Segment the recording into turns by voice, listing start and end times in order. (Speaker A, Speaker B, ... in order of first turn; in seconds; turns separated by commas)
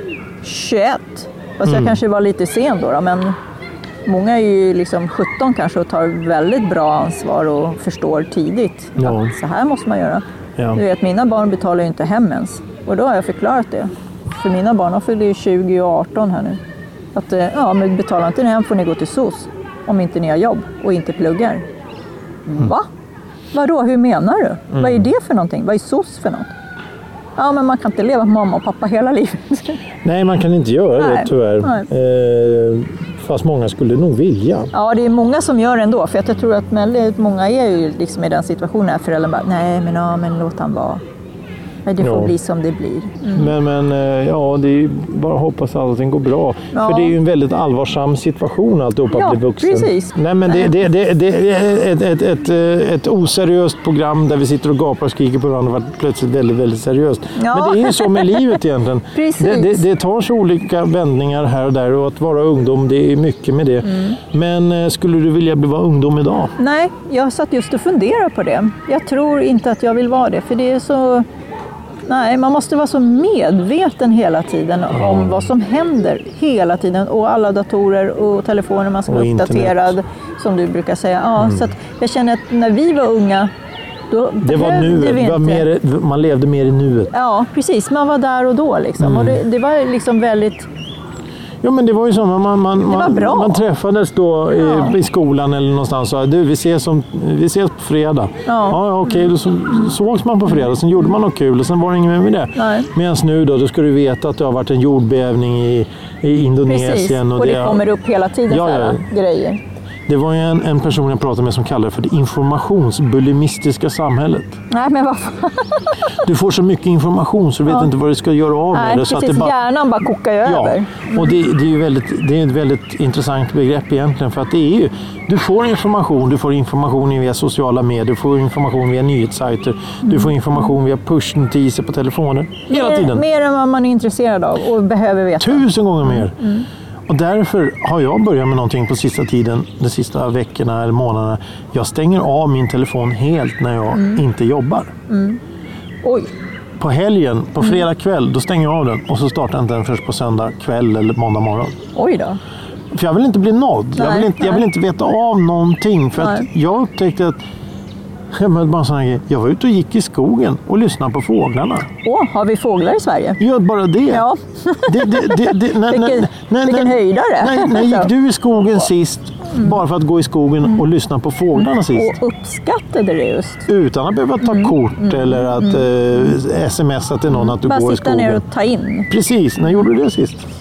Speaker A: 0.4-3.4, Speaker B: 1.6-1.9, Speaker A: 4.0-10.2, Speaker B: 9.0-9.3, Speaker A: 10.7-16.6, Speaker A: 17.1-21.6, Speaker A: 22.5-22.9, Speaker A: 23.5-26.5, Speaker B: 24.7-25.1, Speaker A: 27.4-29.8, Speaker B: 30.0-34.7, Speaker A: 31.0-31.9, Speaker A: 34.7-41.0, Speaker A: 41.9-43.5, Speaker B: 42.0-42.3, Speaker B: 43.3-66.5, Speaker A: 46.7-47.1, Speaker A: 49.1-50.6, Speaker A: 57.4-58.6, Speaker A: 59.1-59.8, Speaker A: 63.9-64.2, Speaker A: 66.6-71.2, Speaker A: 72.1-83.5, Speaker B: 74.9-75.4, Speaker B: 79.1-79.9, Speaker A: 84.1-85.6, Speaker B: 84.4-87.1, Speaker A: 87.1-90.7, Speaker B: 89.0-89.4, Speaker B: 91.6-107.8, Speaker A: 92.9-93.6, Speaker A: 94.6-95.0, Speaker A: 98.5-98.8, Speaker A: 102.5-102.9, Speaker A: 106.7-109.6, Speaker B: 108.5-109.0, Speaker B: 110.1-114.6, Speaker A: 114.7-115.9, Speaker B: 116.2-119.5, Speaker A: 118.7-121.3, Speaker B: 120.4-133.2, Speaker A: 130.1-130.3, Speaker A: 132.7-136.7, Speaker B: 135.4-136.4, Speaker B: 137.1-144.9, Speaker A: 143.9-144.2, Speaker A: 145.1-145.4, Speaker A: 146.0-146.3, Speaker B: 146.8-151.8, Speaker A: 151.9-152.4, Speaker B: 152.9-157.4, Speaker A: 153.9-154.6, Speaker A: 156.2-156.5, Speaker B: 158.3-161.9, Speaker A: 162.0-163.4, Speaker B: 163.4-164.3, Speaker A: 164.1-168.1, Speaker B: 164.8-172.2, Speaker A: 171.6-173.7, Speaker B: 173.7-178.4, Speaker A: 174.4-175.8, Speaker A: 177.3-179.1, Speaker B: 179.1-180.4